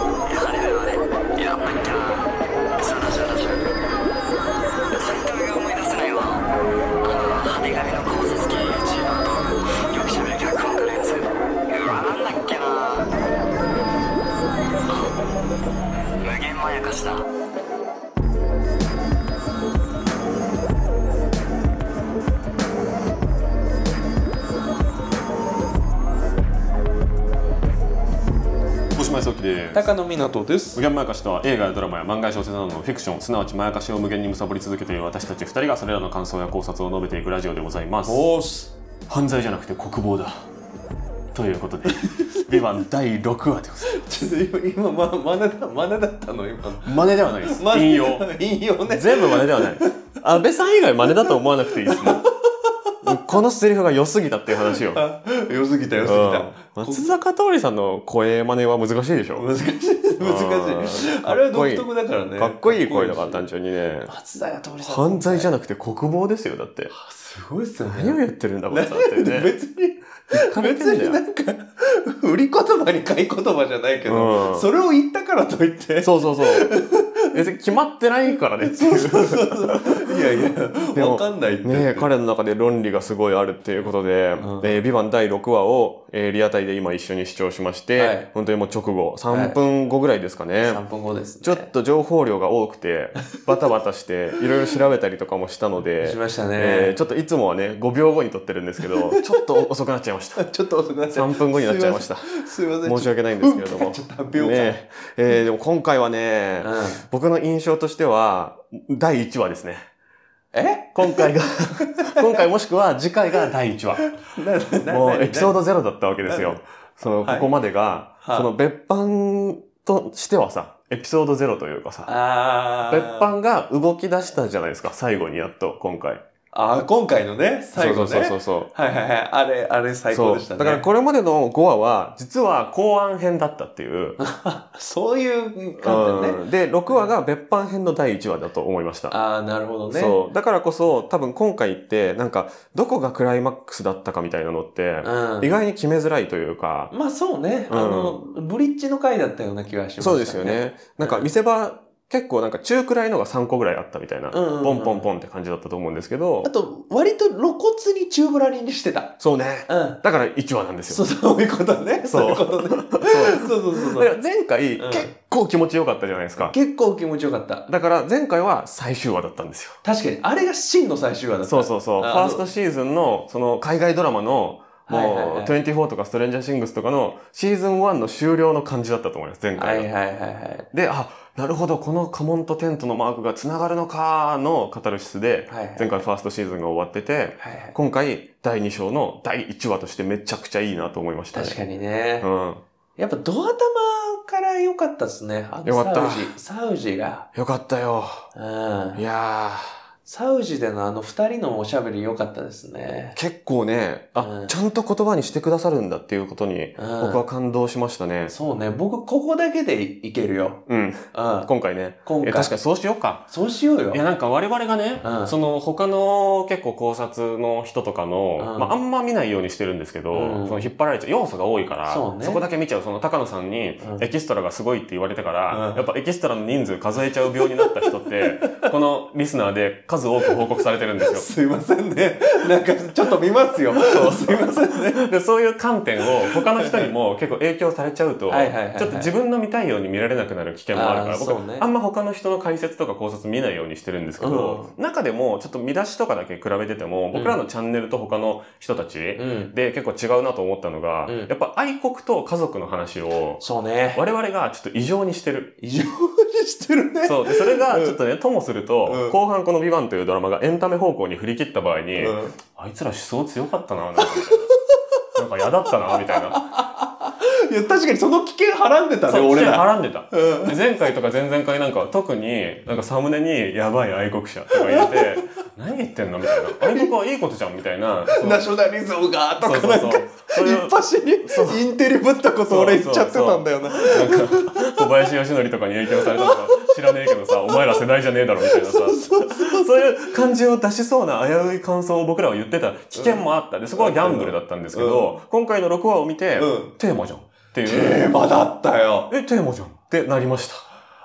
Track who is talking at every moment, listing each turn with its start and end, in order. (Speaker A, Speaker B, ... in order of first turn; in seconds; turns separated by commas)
Speaker A: 0.3-3.7, Speaker A: 4.9-6.5, Speaker A: 7.0-13.1, Speaker A: 14.9-15.1, Speaker A: 16.2-17.3, Speaker B: 28.9-29.9, Speaker C: 29.7-30.8, Speaker B: 30.8-38.3, Speaker C: 38.0-38.8, Speaker B: 39.1-40.5, Speaker B: 41.3-44.3, Speaker C: 42.0-42.6, Speaker C: 43.9-50.1, Speaker B: 46.8-52.2, Speaker C: 51.9-52.9, Speaker B: 53.0-55.0, Speaker C: 54.7-57.1, Speaker B: 56.0-59.5, Speaker C: 59.4-63.4, Speaker B: 60.2-64.1, Speaker C: 64.1-65.5, Speaker B: 64.9-66.9, Speaker C: 66.9-77.4, Speaker B: 67.9-69.5, Speaker B: 70.3-71.2, Speaker B: 74.1-74.7, Speaker B: 76.0-76.7, Speaker B: 77.3-80.2, Speaker C: 78.6-82.1, Speaker B: 80.9-90.8, Speaker C: 84.4-84.7, Speaker C: 88.0-88.3, Speaker C: 89.3-89.6, Speaker C: 90.6-91.7, Speaker B: 91.4-100.5, Speaker C: 96.0-97.0, Speaker C: 98.8-99.6, Speaker C: 100.4-104.8, Speaker B: 101.1-109.9, Speaker C: 106.6-107.0, Speaker C: 110.5-112.4, Speaker B: 111.0-114.2, Speaker C: 114.2-115.6, Speaker B: 114.9-122.1, Speaker C: 116.2-116.6, Speaker C: 117.2-117.5, Speaker C: 118.2-118.5, Speaker C: 122.1-123.3, Speaker B: 122.9-126.2, Speaker C: 126.5-130.9, Speaker B: 127.8-128.7, Speaker B: 130.1-134.2, Speaker C: 134.2-137.1, Speaker B: 135.8-139.2, Speaker C: 139.1-140.2, Speaker B: 139.9-146.9, Speaker C: 145.0-145.6, Speaker C: 146.9-151.3, Speaker B: 147.7-148.2, Speaker B: 150.0-156.5, Speaker C: 154.3-155.1, Speaker C: 156.4-160.0, Speaker B: 159.2-161.1, Speaker C: 160.9-164.1, Speaker B: 162.1-166.6, Speaker C: 164.8-165.1, Speaker C: 166.4-167.7, Speaker B: 167.7-169.8, Speaker C: 169.8-172.4, Speaker B: 171.5-179.9, Speaker C: 174.9-175.5, Speaker C: 179.6-180.7, Speaker B: 180.7-191.6, Speaker C: 185.5-186.0, Speaker C: 187.4-187.8, Speaker C: 191.3-192.3, Speaker B: 192.2-192.6, Speaker C: 193.0-197.3, Speaker B: 195.7-196.3, Speaker B: 197.3-198.3, Speaker C: 198.3-199.0, Speaker B: 198.9-199.8, Speaker C: 200.1-203.2, Speaker B: 203.2-208.3, Speaker C: 204.2-204.5, Speaker C: 206.8-207.2, Speaker C: 208.3-211.5, Speaker B: 210.7-213.3, Speaker C: 212.0-212.5, Speaker C: 213.3-214.0, Speaker B: 213.9-231.3, Speaker C: 215.0-215.3, Speaker C: 218.4-218.7, Speaker C: 220.1-220.6, Speaker C: 221.9-222.4, Speaker C: 223.8-224.1, Speaker C: 225.5-225.8, Speaker C: 227.4-228.7, Speaker C: 231.0-235.1, Speaker B: 233.7-253.4, Speaker C: 236.2-236.9, Speaker C: 238.3-239.1, Speaker C: 240.7-241.7, Speaker C: 244.2-244.7, Speaker C: 247.1-247.4, Speaker C: 249.2-249.5, Speaker C: 251.1-251.3, Speaker C: 253.4-254.0, Speaker B: 253.9-255.6, Speaker C: 255.6-258.0, Speaker B: 257.1-264.5, Speaker C: 258.9-259.2, Speaker C: 262.0-262.4, Speaker C: 264.0-264.4, Speaker B: 265.1-266.4, Speaker C: 265.9-270.6, Speaker B: 269.1-278.5, Speaker C: 274.5-275.3, Speaker C: 276.4-276.9, Speaker C: 278.1-284.9, Speaker B: 279.4-281.7, Speaker B: 282.5-298.1, Speaker C: 285.9-287.8, Speaker C: 288.4-290.2, Speaker C: 292.9-295.2, Speaker C: 296.4-296.8, Speaker C: 297.6-299.1, Speaker B: 299.1-300.7